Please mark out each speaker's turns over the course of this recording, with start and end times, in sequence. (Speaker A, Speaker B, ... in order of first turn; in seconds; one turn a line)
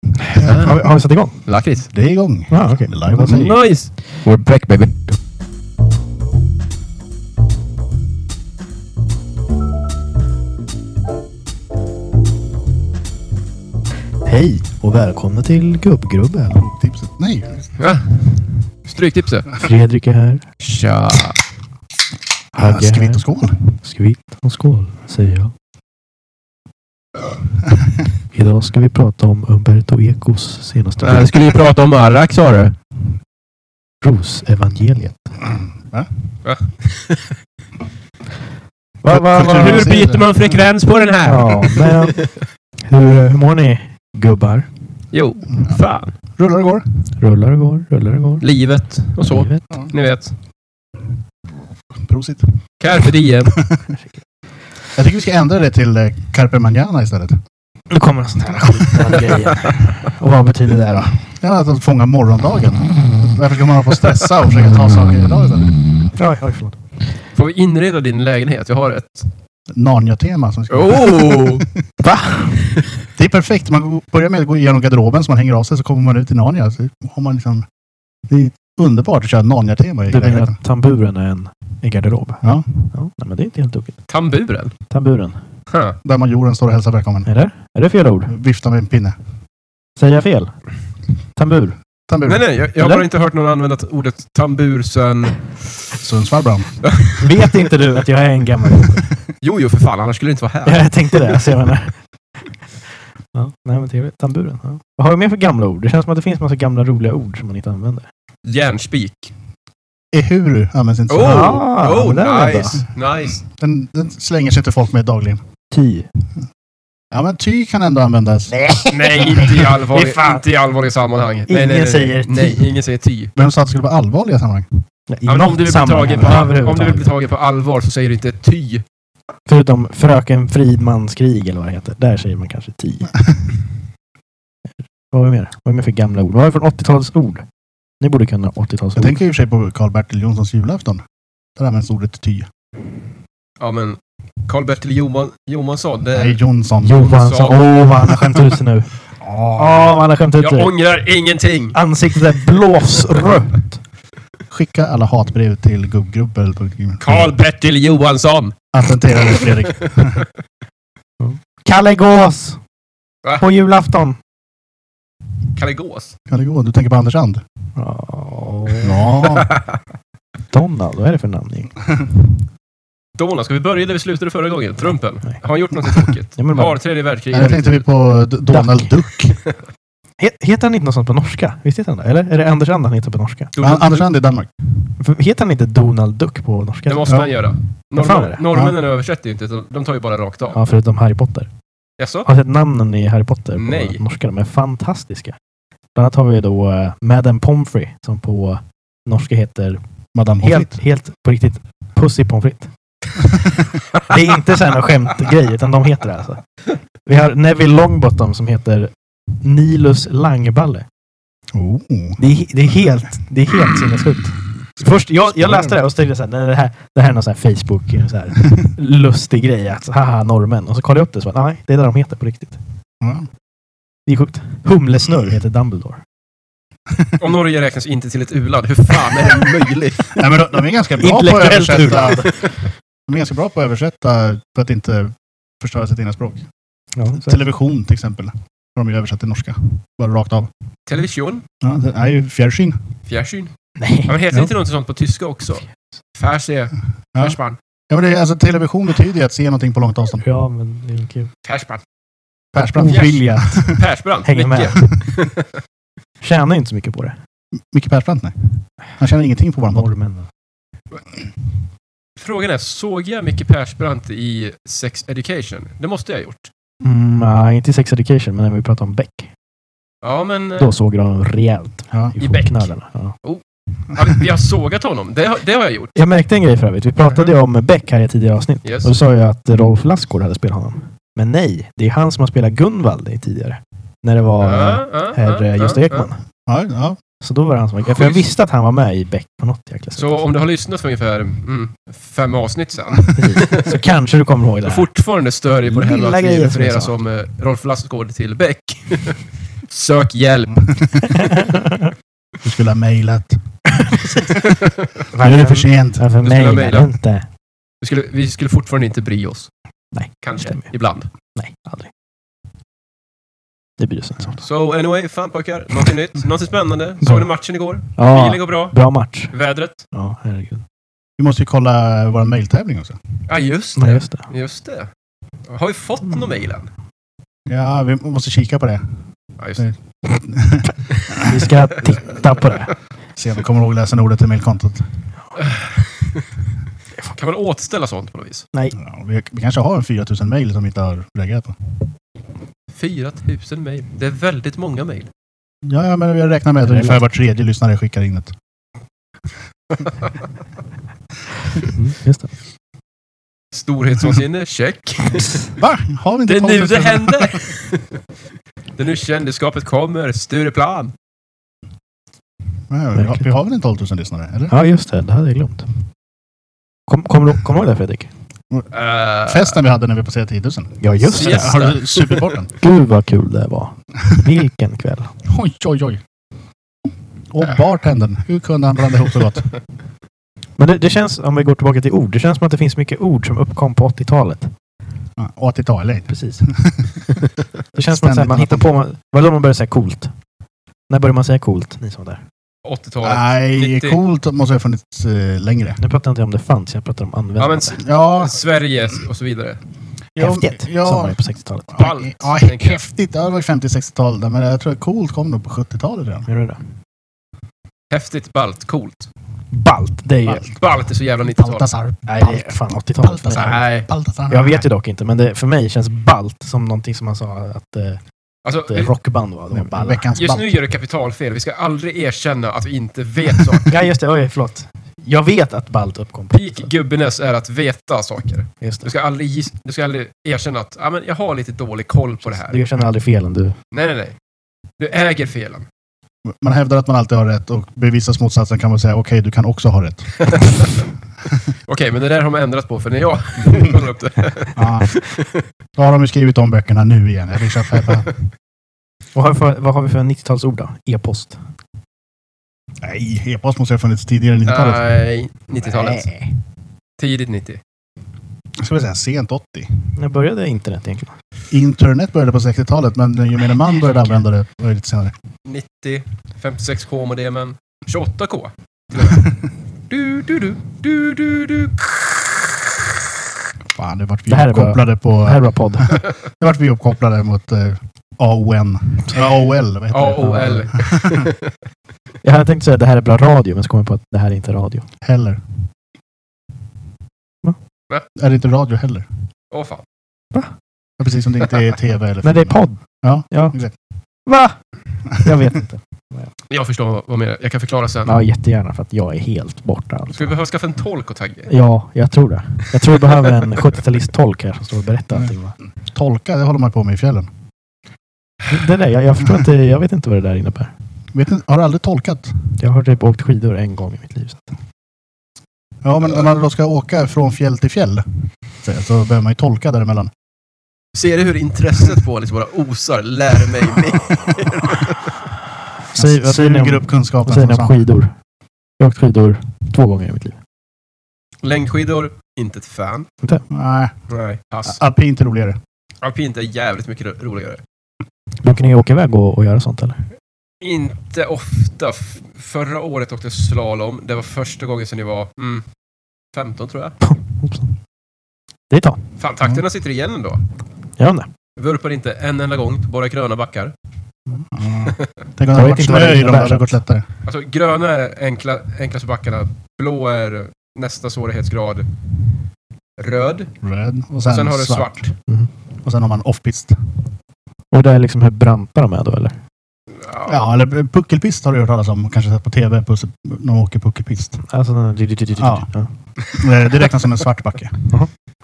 Speaker A: 0.2-0.8
Speaker B: 0.4-1.4
Speaker A: 1.4-1.9
Speaker C: 1.9-3.5
Speaker B: 2.5-3.5
Speaker A: 3.3-5.0
Speaker B: 14.2-16.6
Speaker C: 16.5-17.7
Speaker A: 17.8-18.2
Speaker A: 18.8-19.5
Speaker B: 19.6-20.4
Speaker A: 20.6-21.4
Speaker C: 22.5-23.6
Speaker B: 22.5-25.5
Speaker B: 28.3-31.3
Speaker A: 31.0-32.8
Speaker B: 34.0-35.3
Speaker A: 36.4-37.3
Speaker B: 39.0-39.9
Speaker A: 39.1-42.3
Speaker C: 39.1-40.3
Speaker B: 41.2-42.2
Speaker B: 42.8-44.7
Speaker A: 45.1-46.1
Speaker C: 46.4-46.9
Speaker B: 47.2-48.5
Speaker A: 48.4-50.3
Speaker B: 49.2-49.6
Speaker C: 51.9-52.6
Speaker A: 52.8-53.6
Speaker C: 53.5-53.8
Speaker C: 54.9-57.4
Speaker B: 57.9-61.3
Speaker C: 61.4-65.8
Speaker B: 66.2-66.8
Speaker A: 67.3-69.3
Speaker C: 69.7-71.7
Speaker A: 70.7-71.7
Speaker B: 72.0-72.7
Speaker C: 73.1-77.7
Speaker C: 78.3-80.5
Speaker B: 80.1-84.0
Speaker C: 82.4-82.9
Speaker A: 84.1-84.7
Speaker B: 84.9-85.4
Speaker A: 85.7-86.0
Speaker C: 86.0-87.3
Speaker B: 87.2-88.3
Speaker C: 88.3-89.1
Speaker B: 90.0-90.5
Speaker B: 91.3-91.8
Speaker C: 92.1-92.4
Speaker A: 92.2-95.9
Speaker B: 92.8-93.0
Speaker C: 96.0-96.8
Speaker A: 96.8-97.2
Speaker B: 97.2-99.1
Speaker A: 99.4-101.4
Speaker B: 100.6-102.0
Speaker B: 103.3-108.1
Speaker A: 108.4-109.3
Speaker C: 110.1-111.6
Speaker A: 111.1-113.4
Speaker B: 111.2-112.8
Speaker C: 113.4-115.4
Speaker B: 115.7-116.1
Speaker C: 117.1-118.5
Speaker B: 118.5-120.4
Speaker A: 118.9-123.3
Speaker B: 121.5-122.7
Speaker C: 123.4-124.8
Speaker B: 125.1-127.1
Speaker A: 125.3-128.8
Speaker B: 129.5-133.1
Speaker B: 135.1-137.4
Speaker B: 138.0-139.2
Speaker C: 138.9-141.0
Speaker C: 141.6-142.5
Speaker A: 143.6-146.4
Speaker C: 146.1-147.1
Speaker B: 146.8-148.9
Speaker A: 146.9-147.8
Speaker B: 149.5-150.7
Speaker A: 150.4-151.8
Speaker B: 151.7-153.8
Speaker C: 154.5-157.3
Speaker A: 157.0-158.5
Speaker C: 158.7-160.2
Speaker A: 159.2-160.2
Speaker B: 161.2-162.6
Speaker B: 163.4-164.2
Speaker A: 165.6-166.1
Speaker C: 166.3-167.4
Speaker B: 167.8-169.1
Speaker C: 168.8-169.5
Speaker B: 170.5-171.7
Speaker A: 173.2-177.8
Speaker B: 176.4-176.8
Speaker C: 177.3-179.4
Speaker B: 178.5-179.0
Speaker B: 180.2-183.5
Speaker A: 183.5-184.0
Speaker C: 183.6-184.5
Speaker B: 185.0-187.3
Speaker A: 186.9-190.6
Speaker C: 187.1-187.4
Speaker B: 187.9-188.4
Speaker C: 188.5-188.7
Speaker B: 190.5-191.5
Speaker A: 192.0-192.3
Speaker B: 192.2-195.3
Speaker A: 193.6-194.0
Speaker B: 195.9-199.8
Speaker C: 200.1-200.7
Speaker B: 200.4-202.7
Speaker B: 204.0-206.4
Speaker B: 207.0-210.8
Speaker C: 211.5-212.2
Speaker B: 212.2-222.6
Speaker C: 215.4-215.7
Speaker C: 223.0-223.3
Speaker B: 224.1-226.0
Speaker A: 227.2-230.2
Speaker C: 230.1-232.3
Speaker B: 231.0-232.5
Speaker C: 233.1-236.4
Speaker B: 236.9-237.4
Speaker C: 237.2-240.5
Speaker A: 240.9-241.4
Speaker C: 241.6-242.8
Speaker A: 243.1-243.5
Speaker B: 243.8-244.2
Speaker A: 244.1-247.6
Speaker C: 247.9-250.2
Speaker B: 250.2-251.3
Speaker A: 251.4-251.8
Speaker C: 252.5-253.8
Speaker B: 252.6-253.7
Speaker A: 252.8-255.5
Speaker B: 254.2-254.8
Speaker B: 256.2-257.1
Speaker C: 257.7-259.9
Speaker B: 259.7-260.3
Speaker A: 262.2-266.5
Speaker B: 266.8-269.3
Speaker A: 270.0-270.7
Speaker B: 270.6-273.1
Speaker A: 272.2-272.7
Speaker A: 273.9-275.9
Speaker B: 275.9-286.2
Speaker A: 278.6-278.9
Speaker A: 284.4-286.1
Speaker C: 286.5-287.0
Speaker B: 287.2-290.2
Speaker A: 287.9-288.2
Speaker A: 290.0-293.8
Speaker B: 293.1-294.9
Speaker A: 294.6-300.7
Speaker B: 295.7-296.9
Speaker B: 301.1-301.9
Speaker C: 302.4-303.4
Speaker B: 303.9-304.1
Speaker B: 305.1-307.2
Speaker C: 305.2-306.0
Speaker A: 306.2-306.9
Speaker A: 307.8-309.5
Speaker B: 309.9-310.7
Speaker A: 310.2-311.1
Speaker B: 311.3-311.9
Speaker B: 313.8-314.4
Speaker A: 314.4-318.8
Speaker B: 317.0-317.3
Speaker B: 317.9-319.3
Speaker A: 319.3-319.8
Speaker B: 319.9-320.6
Speaker C: 321.2-323.0
Speaker A: 323.3-324.9
Speaker B: 323.8-324.3
Speaker A: 325.5-326.7
Speaker C: 327.5-328.8
Speaker A: 329.4-329.6
Speaker C: 329.6-331.4
Speaker B: 331.2-332.7
Speaker C: 333.1-334.8
Speaker A: 335.4-336.2
Speaker A: 337.1-338.4
Speaker C: 338.8-341.5
Speaker A: 342.7-345.1
Speaker C: 345.6-348.3
Speaker B: 346.6-347.0
Speaker B: 351.6-352.3
Speaker A: 353.5-355.5
Speaker C: 355.6-357.4
Speaker A: 356.2-358.0
Speaker A: 358.8-360.9
Speaker C: 362.7-364.5
Speaker B: 362.9-363.2
Speaker B: 364.5-365.7
Speaker B: 366.9-368.1
Speaker A: 368.7-369.6
Speaker C: 369.2-372.5
Speaker B: 370.8-371.6
Speaker A: 371.2-372.3
Speaker B: 372.6-375.1
Speaker C: 375.2-376.0
Speaker C: 377.3-379.5
Speaker B: 380.6-384.5
Speaker C: 385.2-387.2
Speaker B: 386.1-386.5
Speaker B: 387.7-390.1
Speaker C: 387.9-388.7
Speaker B: 390.9-392.2
Speaker A: 392.6-394.0
Speaker C: 393.0-395.8
Speaker B: 395.8-397.8
Speaker A: 397.4-399.6
Speaker C: 397.8-398.4
Speaker C: 400.1-401.2
Speaker B: 400.2-401.8
Speaker C: 401.7-406.3
Speaker A: 401.8-402.8
Speaker B: 406.3-406.6
Speaker A: 407.9-409.1
Speaker B: 409.5-410.4
Speaker A: 410.3-411.6
Speaker C: 411.3-412.5
Speaker B: 412.1-413.7
Speaker C: 413.0-414.6
Speaker A: 413.3-413.9
Speaker B: 414.3-418.0
Speaker A: 418.4-418.9
Speaker B: 418.6-420.1
Speaker C: 419.5-420.6
Speaker A: 420.1-423.8
Speaker B: 423.7-426.7
Speaker A: 426.3-432.6
Speaker B: 428.6-428.9
Speaker B: 432.2-433.6
Speaker A: 433.7-434.1
Speaker A: 434.8-435.6
Speaker C: 436.3-440.7
Speaker A: 441.7-445.3
Speaker C: 444.6-444.9
Speaker C: 445.8-448.1
Speaker B: 449.1-451.4
Speaker C: 452.8-454.9
Speaker A: 454.5-456.1
Speaker B: 455.8-456.3
Speaker A: 457.0-457.6
Speaker C: 458.6-459.7
Speaker B: 459.9-461.1
Speaker C: 461.5-465.1
Speaker A: 465.4-469.4
Speaker A: 469.9-471.9
Speaker C: 473.7-481.3
Speaker B: 474.3-476.0
Speaker A: 479.9-481.4
Speaker B: 482.2-484.9
Speaker C: 485.0-485.4
Speaker C: 488.1-489.1
Speaker A: 489.5-489.8
Speaker C: 491.0-493.7
Speaker B: 492.2-493.6
Speaker B: 494.2-494.6
Speaker B: 495.1-496.3
Speaker A: 496.5-498.1
Speaker B: 498.0-500.4
Speaker A: 500.1-501.5
Speaker B: 501.5-505.5
Speaker C: 505.9-507.3
Speaker B: 508.5-510.7
Speaker C: 511.1-512.3
Speaker B: 512.6-514.5
Speaker C: 515.8-520.1
Speaker A: 520.9-525.2
Speaker B: 525.9-528.1
Speaker C: 525.9-527.8
Speaker B: 528.8-530.4
Speaker A: 531.4-533.1
Speaker C: 533.5-533.9
Speaker A: 534.1-534.8
Speaker C: 534.6-535.6
Speaker A: 536.0-537.6
Speaker B: 538.4-540.0
Speaker A: 540.6-545.6
Speaker A: 546.3-547.0
Speaker B: 547.0-547.7
Speaker B: 548.7-549.0
Speaker A: 549.2-550.4
Speaker B: 551.0-551.3
Speaker A: 551.6-553.7
Speaker C: 554.5-557.0
Speaker B: 555.5-556.7
Speaker A: 557.2-561.9
Speaker A: 563.0-563.5
Speaker C: 563.6-565.0
Speaker A: 564.2-565.1
Speaker C: 565.8-566.8
Speaker B: 567.7-569.4
Speaker A: 570.0-570.3
Speaker C: 570.2-574.4
Speaker B: 574.4-575.9
Speaker C: 575.4-575.7
Speaker C: 576.3-577.8